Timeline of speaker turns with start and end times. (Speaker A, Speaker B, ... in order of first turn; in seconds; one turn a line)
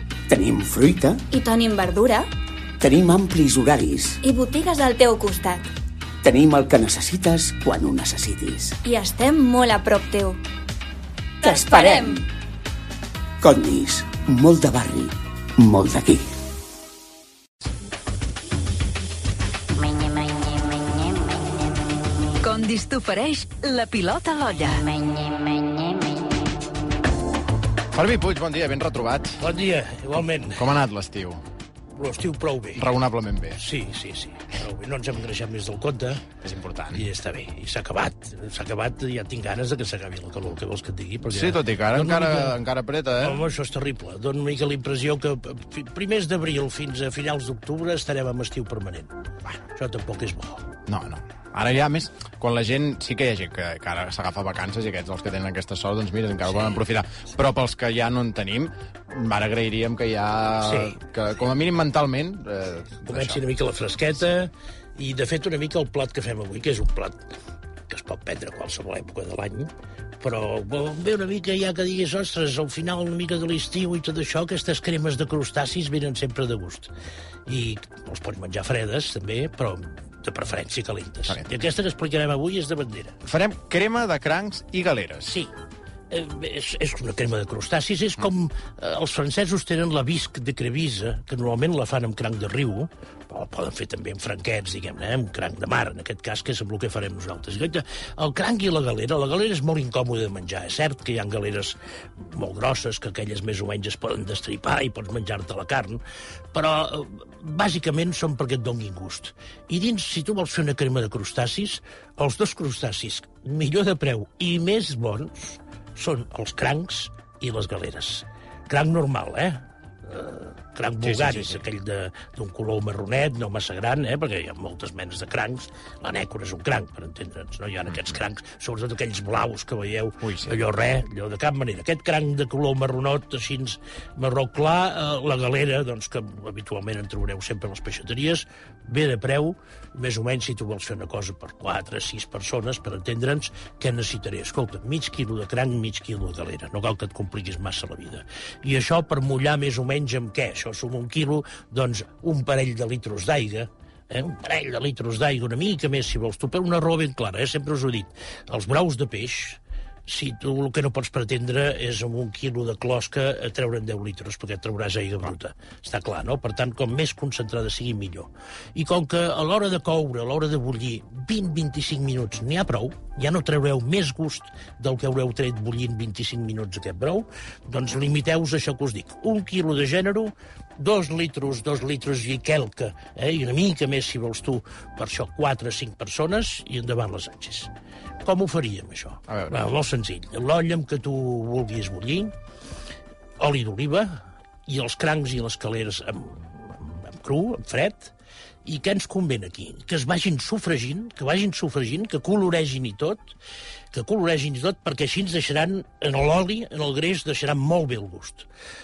Speaker A: 0.3-1.2
Speaker B: 1.3-2.3
Speaker A: 2.8-4.2
Speaker B: 4.2-5.7
Speaker A: 6.2-8.8
Speaker B: 8.8-10.4
Speaker A: 11.4-12.3
Speaker C: 11.4-12.2
Speaker A: 13.4-16.3
Speaker C: 22.4-25.0
Speaker D: 27.9-29.4
Speaker E: 29.4-30.7
Speaker D: 30.4-31.4
Speaker E: 31.9-32.9
Speaker D: 32.8-33.6
Speaker E: 33.6-36.3
Speaker D: 36.4-37.0
Speaker E: 36.9-42.6
Speaker D: 41.2-43.4
Speaker E: 43.2-49.1
Speaker E: 49.8-50.7
Speaker D: 50.9-63.4
Speaker E: 60.6-61.0
Speaker E: 63.1-67.3
Speaker E: 67.9-76.9
Speaker E: 77.5-83.2
Speaker D: 83.2-85.3
Speaker E: 85.2-85.5
Speaker E: 86.1-106.0
Speaker E: 106.5-187.7
Speaker D: 121.0-121.6
Speaker D: 130.2-130.5
Speaker E: 188.2-192.3
Speaker D: 189.3-189.6
Speaker E: 193.4-198.1
Speaker E: 198.7-203.4
Speaker E: 203.9-208.5